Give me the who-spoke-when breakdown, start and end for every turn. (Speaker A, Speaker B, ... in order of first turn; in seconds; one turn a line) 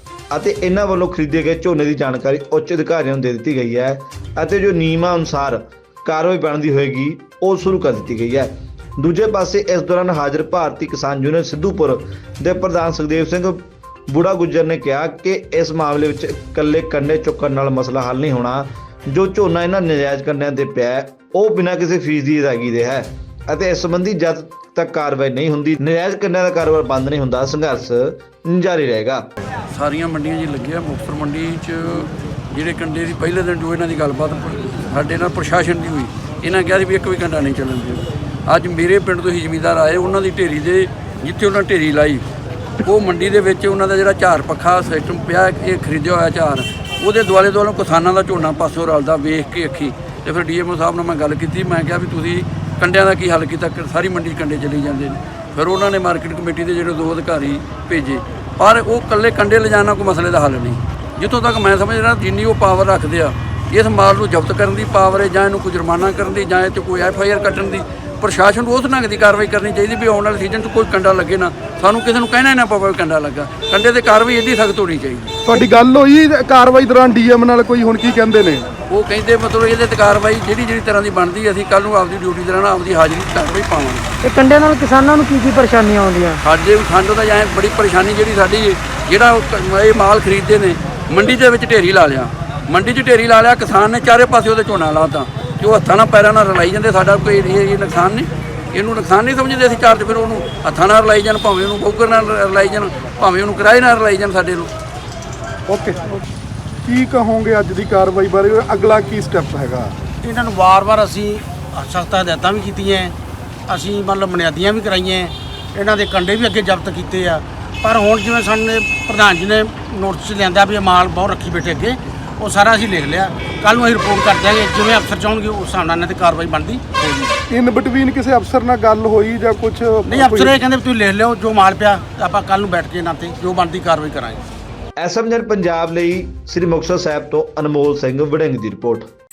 Speaker A: 0.3-29.2
Speaker B: 29.7-42.2
Speaker B: 42.8-75.3
Speaker C: 75.5-78.7
Speaker B: 78.9-84.1
Speaker D: 84.2-86.4
Speaker B: 86.4-104.7
Speaker C: 105.8-106.2
Speaker C: 106.9-109.8
Speaker E: 110.2-113.2
Speaker E: 113.7-127.4
Speaker C: 127.5-130.6
Speaker E: 130.1-134.4
Speaker A: 135.0-139.1